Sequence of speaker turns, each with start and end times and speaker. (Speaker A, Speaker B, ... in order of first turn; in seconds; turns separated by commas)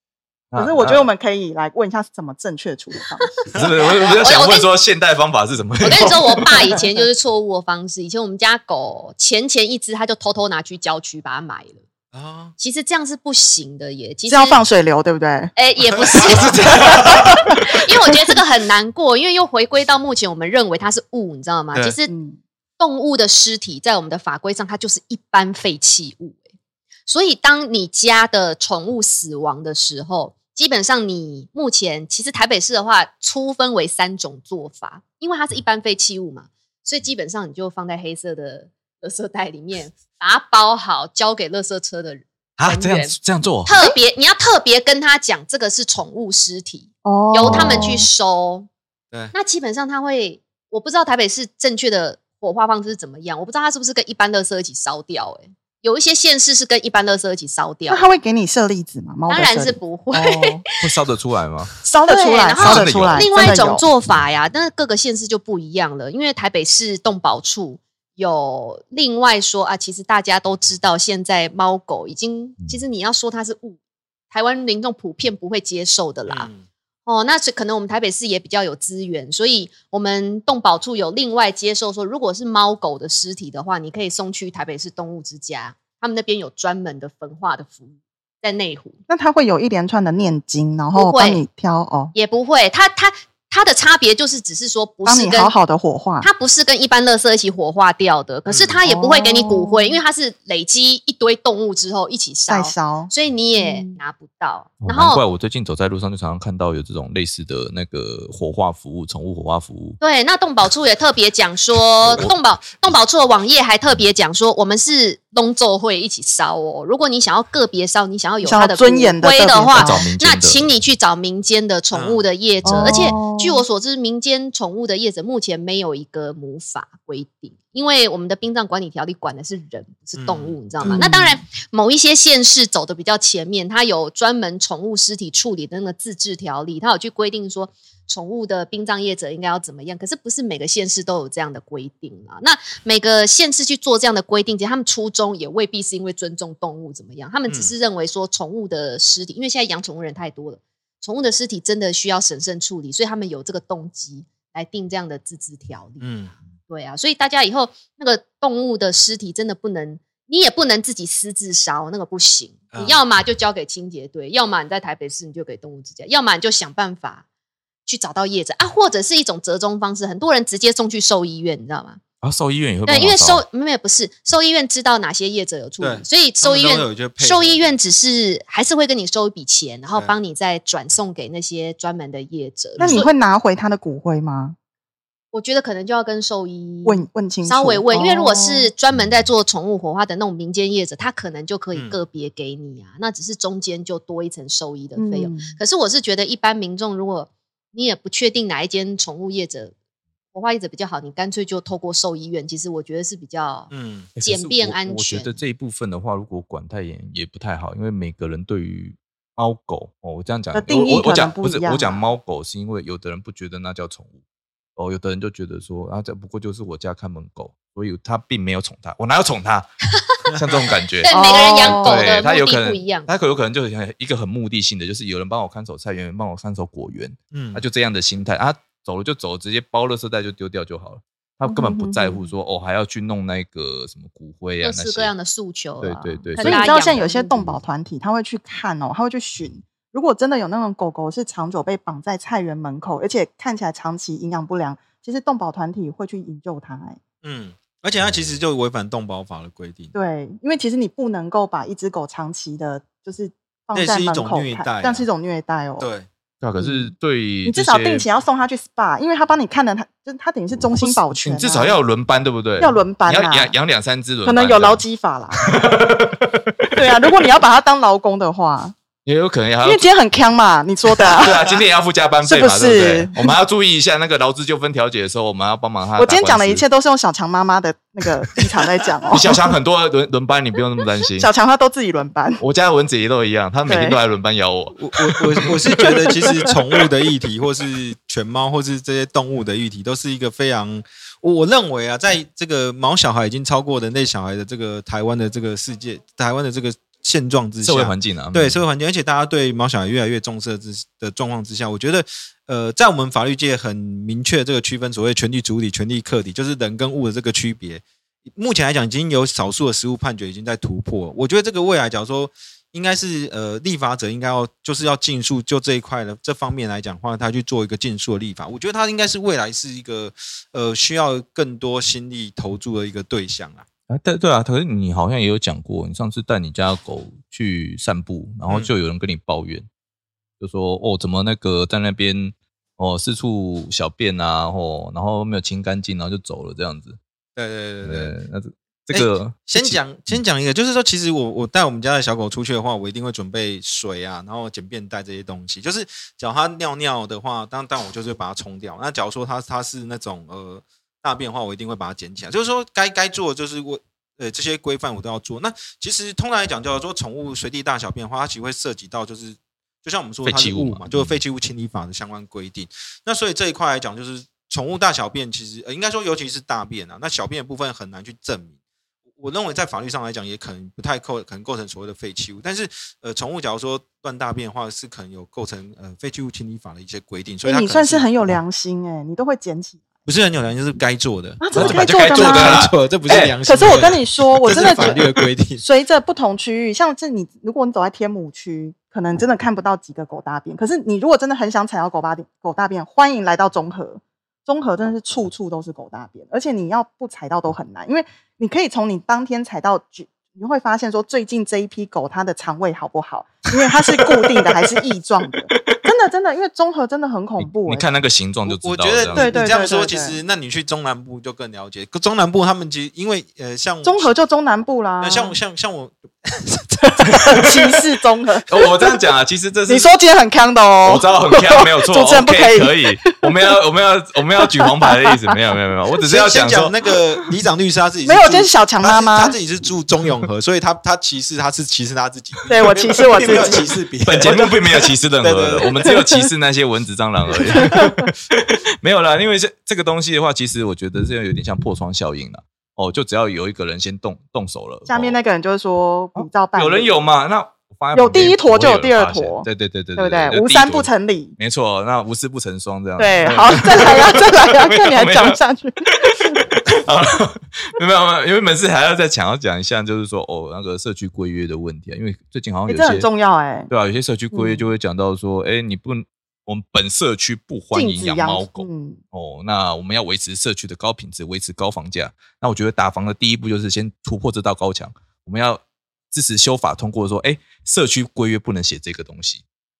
Speaker A: 0.5-1.1, Speaker B: 0.6-3.3, Speaker A: 3.5-6.7, Speaker C: 4.1-4.7, Speaker C: 5.8-11.8, Speaker D: 12.1-12.5, Speaker C: 12.6-14.6, Speaker B: 14.3-15.5, Speaker C: 15.6-22.1, Speaker D: 15.9-17.2, Speaker B: 22.1-22.4, Speaker C: 22.8-26.4, Speaker C: 27.1-48.7, Speaker A: 42.6-43.8, Speaker B: 47.0-48.1, Speaker A: 47.4-47.9, Speaker C: 49.3-58.0, Speaker B: 57.9-60.6, Speaker C: 59.3-60.5, Speaker A: 60.8-61.7, Speaker B: 61.8-63.9, Speaker C: 62.1-73.8, Speaker A: 62.6-63.5, Speaker C: 74.3-76.5, Speaker D: 76.3-76.7, Speaker C: 77.1-89.0, Speaker B: 89.1-92.1, Speaker C: 91.0-91.4, Speaker C: 92.1-95.5, Speaker B: 95.1-96.3, Speaker C: 96.2-105.2, Speaker D: 98.5-98.8, Speaker B: 98.8-100.0, Speaker B: 102.5-104.0, Speaker A: 104.8-110.0, Speaker C: 110.0-156.2, Speaker A: 112.0-112.3, Speaker B: 118.4-120.1, Speaker A: 119.7-120.7, Speaker D: 121.9-122.3, Speaker B: 122.7-123.6, Speaker A: 122.7-123.1, Speaker D: 130.2-131.1, Speaker B: 130.9-131.4, Speaker D: 147.5-147.7, Speaker D: 156.0-156.3, Speaker C: 156.7-167.2, Speaker D: 162.7-163.0, Speaker C: 167.9-172.0, Speaker A: 172.2-173.4, Speaker C: 172.9-183.1, Speaker D: 175.8-177.7, Speaker D: 182.8-183.0, Speaker B: 182.8-184.6, Speaker C: 185.3-199.7, Speaker B: 186.8-188.7, Speaker B: 195.0-195.6, Speaker C: 200.3-203.7, Speaker D: 203.7-204.1, Speaker A: 204.2-214.2, Speaker C: 204.2-205.4, Speaker B: 210.5-212.0, Speaker A: 214.8-219.7, Speaker D: 220.3-220.8, Speaker A: 220.3-235.1, Speaker C: 221.0-223.1, Speaker B: 221.1-222.2, Speaker D: 227.3-227.6, Speaker B: 231.4-232.3, Speaker C: 234.6-237.4, Speaker A: 235.8-237.5, Speaker B: 236.4-247.0, Speaker D: 247.2-249.9, Speaker B: 249.9-255.9, Speaker D: 253.7-255.1, Speaker D: 255.8-256.1, Speaker A: 256.4-258.1, Speaker B: 256.6-256.9, Speaker B: 257.4-261.8, Speaker A: 260.7-264.8, Speaker B: 262.6-263.5, Speaker B: 264.2-265.6, Speaker A: 265.4-266.9, Speaker B: 266.8-268.8, Speaker A: 269.1-269.9, Speaker B: 269.6-271.5, Speaker A: 271.1-276.6, Speaker D: 271.2-271.6, Speaker B: 272.2-273.4, Speaker B: 276.0-279.4, Speaker A: 279.1-281.3, Speaker B: 281.2-282.4, Speaker A: 282.4-286.6, Speaker B: 283.7-284.0, Speaker D: 284.8-323.7, Speaker A: 297.6-298.6, Speaker A: 323.9-329.7, Speaker A: 330.4-337.0, Speaker D: 337.4-338.1, Speaker A: 337.8-340.2, Speaker D: 338.9-368.6, Speaker A: 360.2-361.2, Speaker D: 369.2-378.1, Speaker B: 377.4-379.9, Speaker D: 380.1-385.6, Speaker B: 381.4-382.6, Speaker A: 381.5-383.4, Speaker B: 383.5-385.1, Speaker B: 385.6-407.9, Speaker A: 403.7-404.6, Speaker A: 405.5-405.8, Speaker A: 407.4-409.4, Speaker D: 408.4-414.1, Speaker B: 409.1-410.2, Speaker B: 413.8-415.4, Speaker D: 415.0-417.4, Speaker B: 417.3-418.9, Speaker A: 418.5-419.9, Speaker B: 419.7-423.5, Speaker A: 420.9-426.7, Speaker B: 424.4-424.9, Speaker D: 426.0-435.8, Speaker B: 428.1-429.4, Speaker B: 432.5-433.6, Speaker A: 434.0-445.2, Speaker B: 435.8-436.2, Speaker B: 437.4-438.1, Speaker B: 444.9-446.9, Speaker A: 446.1-463.1, Speaker B: 447.9-451.4, Speaker B: 453.0-456.4, Speaker B: 462.7-463.7, Speaker A: 463.7-479.4, Speaker B: 464.3-464.7, Speaker B: 467.7-469.0